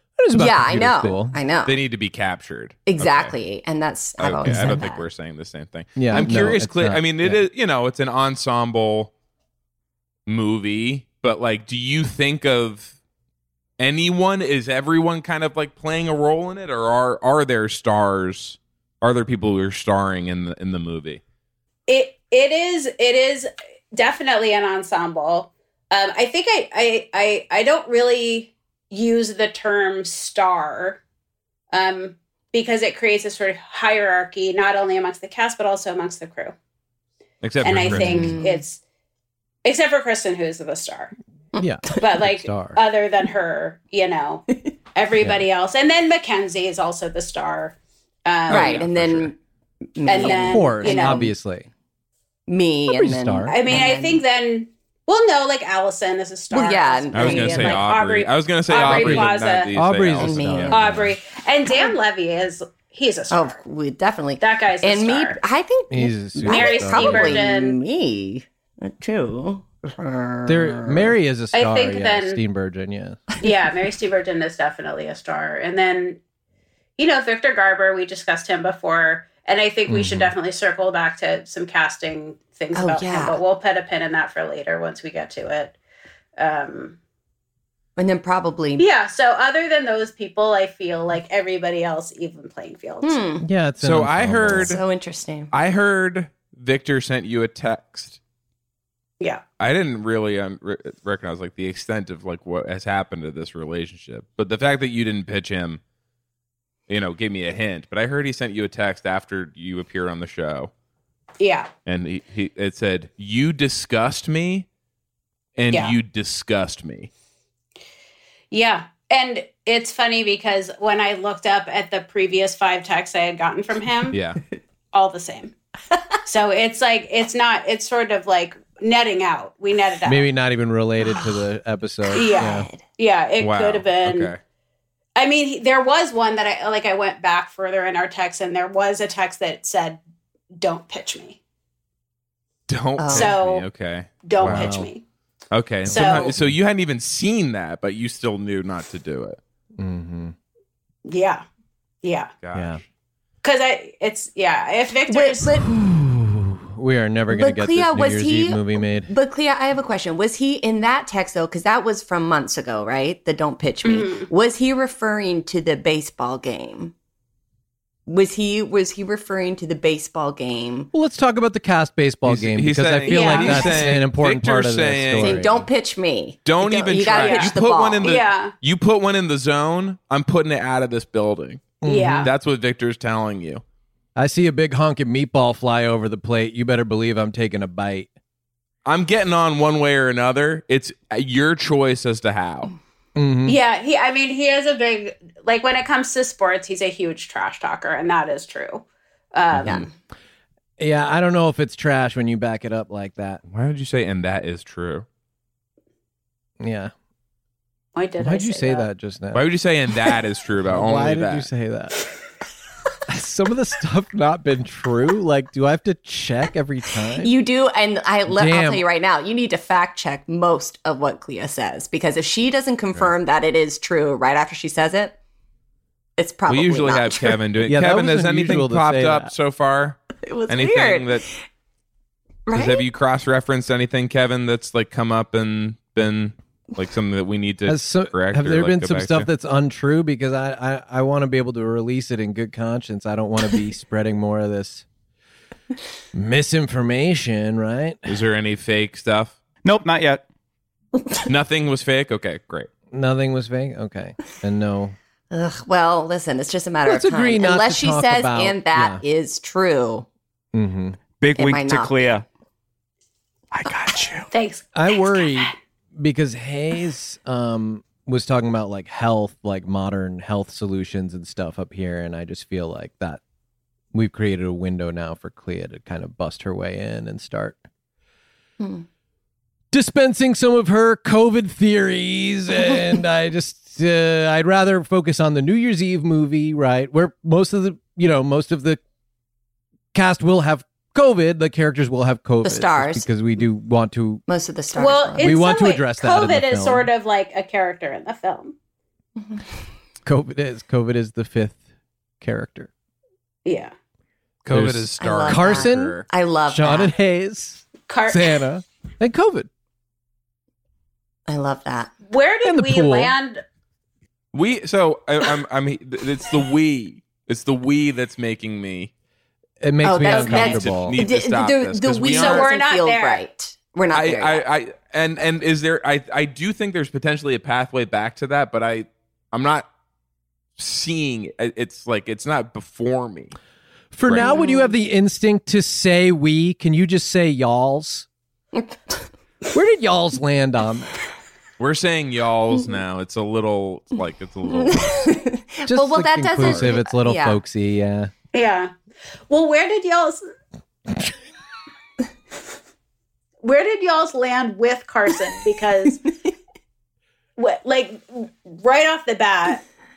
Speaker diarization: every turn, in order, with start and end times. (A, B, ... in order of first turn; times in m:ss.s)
0:00.2-0:01.4 A
0:00.3-0:01.8 B
0:01.6-0:03.3 C
0:02.8-0:05.0 B
0:04.2-0:09.1 C
0:04.4-0:04.8 A
0:06.0-0:07.4 A
0:10.3-0:12.9 C
0:13.8-0:21.2 C
0:21.9-0:31.0 D
0:31.7-0:36.5 D
0:37.4-0:38.4 C
0:37.6-0:38.8 D
0:37.8-0:38.4 A
0:38.0-0:38.6 B
0:39.6-0:41.1 D
0:41.6-0:42.8 A
0:42.0-0:48.8 D
0:45.2-0:45.4 A
0:48.5-0:49.3 C
0:48.5-0:49.4 B
0:49.9-0:51.3 B
0:50.0-0:51.3 D
0:50.2-0:51.7 A
0:52.5-0:54.2 B
0:52.9-0:53.8 A
0:53.5-0:59.7 D
0:56.5-0:57.8 B
0:57.1-1:00.7 C
0:58.8-1:01.1 A
1:00.2-1:00.9 B
1:00.7-1:03.6 D
1:03.3-1:11.1 B
1:04.4-1:05.4 D
1:05.9-1:07.5 A
1:06.4-1:07.8 D
1:10.5-1:13.2 A
1:11.5-1:12.4 D
1:13.4-1:16.2 D
1:17.0-1:25.7 D
1:19.9-1:20.3 A
1:22.7-1:23.4 B
1:26.4-1:27.0 D
1:28.0-1:28.8 B
1:28.8-1:33.2 D
1:33.0-1:33.4 B
1:33.4-1:34.8 A
1:33.8-1:34.8 C
1:34.5-1:35.5 B
1:35.5-1:38.2 C
1:39.6-1:45.8 C
1:46.9-1:50.7 C
1:51.4-1:51.7 D
1:51.8-1:54.6 C
1:55.6-1:57.1 C
1:58.5-2:04.2 D
2:04.1-2:04.4 C
2:04.9-2:05.5 D
2:06.2-2:10.2 D
2:10.0-2:12.7 A
2:11.0-2:11.4 B
2:12.1-2:12.8 B
2:12.1-2:14.3 D
2:13.4-2:14.4 C
2:15.2-2:20.0 D
2:20.6-2:21.4 D
2:22.7-2:24.7 C
2:23.0-2:23.3 B
2:23.1-2:23.6 D
2:24.2-2:25.0 D
2:24.4-2:24.9 A
2:25.5-2:29.4 C
2:25.8-2:26.6 A
2:25.9-2:26.3 D
2:29.8-2:30.3 A
2:31.0-2:31.4 D
2:32.0-2:32.3 D
2:32.4-2:32.8 C
2:32.5-2:32.8 A
2:33.4-2:35.6 D
2:35.1-2:35.6 B
2:35.6-2:39.1 A
2:37.3-2:46.9 B
2:43.8-2:44.3 D
2:48.1-2:50.9 B
2:50.9-2:55.6 A
2:52.2-2:55.4 C
2:53.1-2:53.8 D
2:55.2-2:58.2 B
2:56.4-3:03.6 C
2:56.9-2:58.5 D
3:01.8-3:02.3 A
3:01.8-3:02.3 D
3:04.2-3:08.1 A
3:08.8-3:12.7 C
3:13.2-3:13.6 A
3:13.4-3:19.9 D
3:19.6-3:19.9 B
3:20.8-3:23.4 A
3:23.5-3:25.0 C
3:26.6-3:26.9 A
3:27.9-3:28.9 D
3:28.2-3:29.5 A
3:29.3-3:31.5 C
3:30.7-3:32.0 A
3:33.1-3:37.3 A
3:37.2-3:45.2 B
3:38.3-3:38.8 A
3:46.2-3:47.4 B
3:46.5-3:51.2 C
3:47.6-3:49.3 A
3:50.2-3:51.3 B
3:52.5-3:52.8 B
3:52.5-3:59.3 C
3:57.6-4:04.8 A
4:06.1-4:08.1 A
4:08.1-4:09.3 C
4:09.6-4:10.2 E
4:11.2-4:12.7 C
4:12.9-4:15.0 A
4:15.3-4:20.0 B
4:16.8-4:19.0 A
4:20.5-4:21.0 A
4:21.2-4:22.2 E
4:21.4-4:22.2 B
4:23.5-4:24.3 E
4:24.3-4:25.5 D
4:24.7-4:33.2 A
4:33.9-4:37.6 A
4:38.6-4:38.8 B
4:39.7-4:48.8 A
4:49.9-4:54.2 A
4:52.4-4:53.0 B
4:54.3-4:55.6 B
4:54.8-4:58.5 D
4:55.2-4:56.9 A
4:59.2-4:59.4 B
5:00.0-5:01.6 A
5:02.2-5:02.7 A
5:03.4-5:03.7 D
5:04.4-5:06.0 C
5:04.5-5:09.5 A
5:05.0-5:07.0 B
5:07.9-5:08.3 D
5:11.3-5:11.9 B
5:12.1-5:13.4 D
5:12.4-5:13.1 A
5:14.3-5:18.9 C
5:19.6-5:21.0 A
5:19.8-5:24.4 B
5:20.0-5:22.5 C
5:22.1-5:23.2 D
5:23.9-5:29.6 C
5:30.6-5:33.4 C
5:33.9-5:38.1 A
5:34.1-5:34.3 C
5:34.2-5:34.7 B
5:38.5-5:39.0 B
5:39.5-5:40.9 A
5:41.6-5:45.1 C
5:44.5-5:47.4 B
5:45.6-5:48.1 A
5:46.4-5:46.7 C
5:48.3-5:48.7 D
5:49.3-5:50.2 D
5:53.4-5:56.1 D
5:57.4-5:59.6 D